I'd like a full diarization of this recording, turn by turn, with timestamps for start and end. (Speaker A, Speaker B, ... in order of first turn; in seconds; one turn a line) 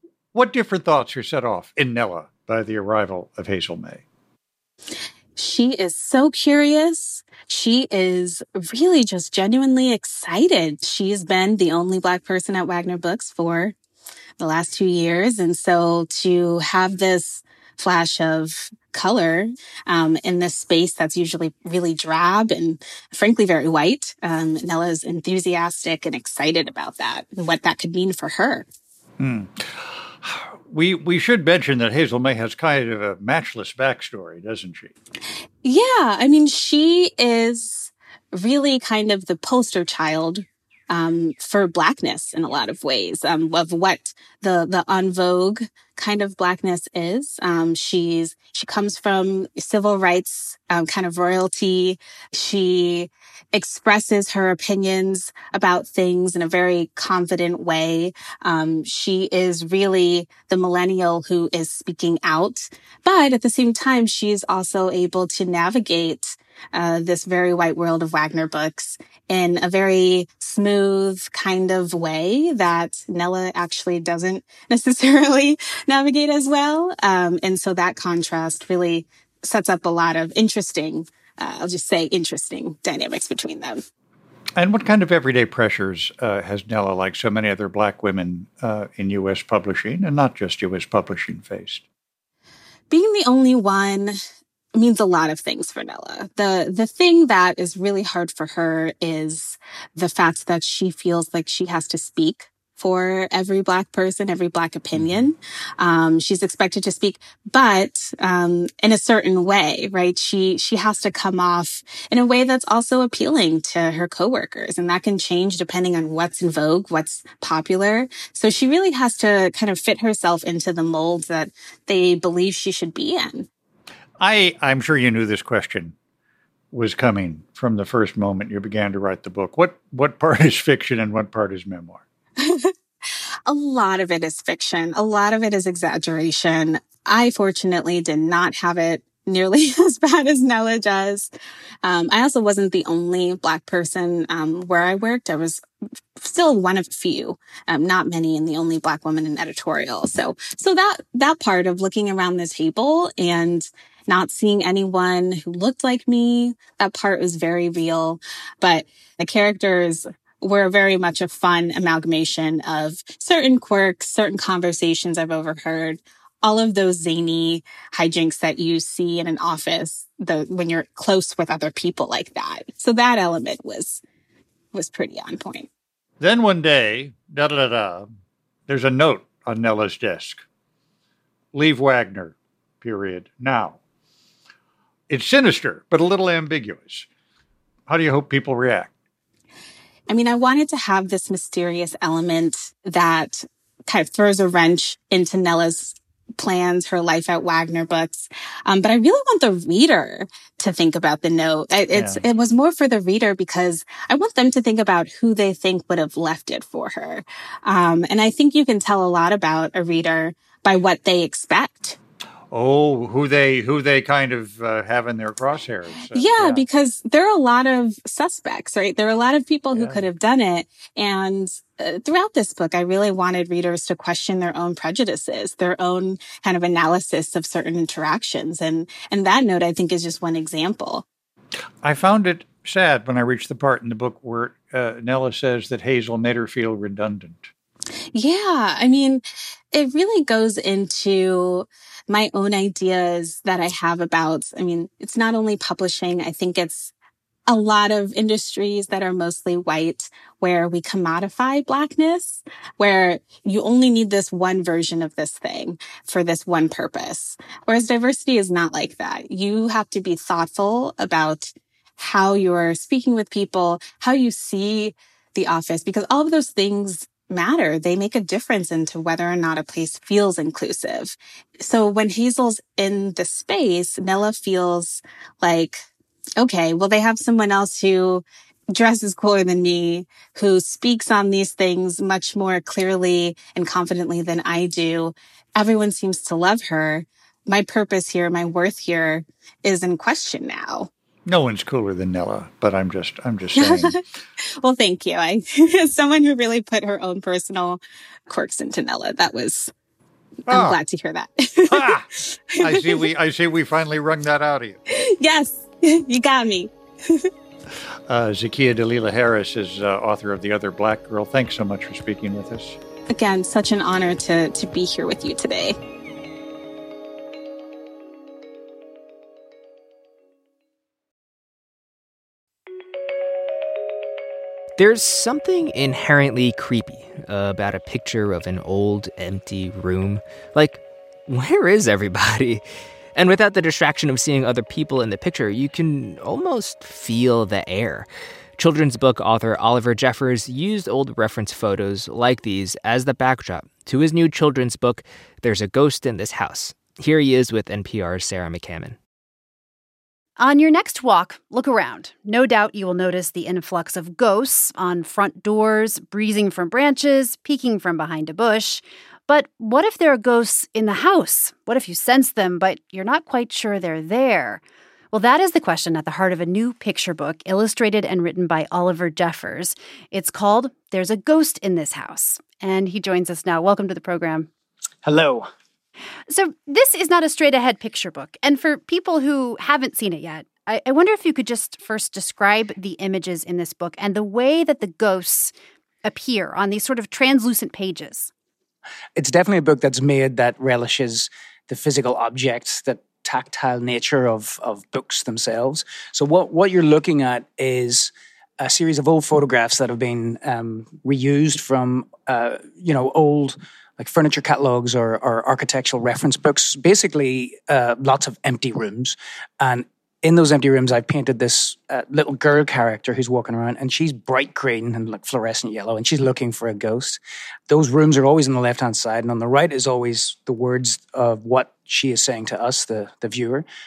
Speaker A: 0.3-4.0
Speaker B: 5.4-13.8
Speaker B: 14.4-28.7
Speaker A: 29.2-34.9
Speaker B: 35.6-83.8
Speaker A: 84.6-91.8
Speaker B: 92.9-94.2
Speaker B: 94.8-123.5
Speaker A: 104.9-105.3
Speaker A: 124.2-126.0
Speaker A: 126.7-132.0
Speaker B: 132.4-132.7
Speaker B: 133.5-141.3
Speaker B: 141.8-145.6
Speaker B: 146.2-174.0
Speaker B: 174.7-175.7
Speaker A: 176.2-178.1
Speaker A: 178.7-180.4
Speaker A: 181.5-183.8
Speaker A: 185.1-187.1
Speaker A: 187.9-188.9
Speaker B: 190.1-212.0
Speaker A: 201.9-202.2
Speaker A: 212.5-216.7
Speaker B: 216.1-231.1
Speaker A: 219.7-220.1
Speaker A: 231.8-237.5
Speaker B: 238.1-246.9
Speaker B: 247.5-275.9
Speaker B: 276.4-290.9
Speaker A: 291.3-294.0
Speaker B: 293.6-294.0
Speaker B: 294.6-299.7
Speaker A: 300.5-300.8
Speaker B: 300.5-303.1
Speaker A: 301.7-304.8
Speaker B: 304.9-307.3
Speaker A: 308.1-312.8
Speaker B: 313.1-315.8
Speaker C: 324.8-349.0
Speaker D: 350.4-374.5
Speaker E: 375.0-375.5
Speaker D: 376.3-385.5
Speaker D: 386.0-388.3
Speaker E: 389.2-423.7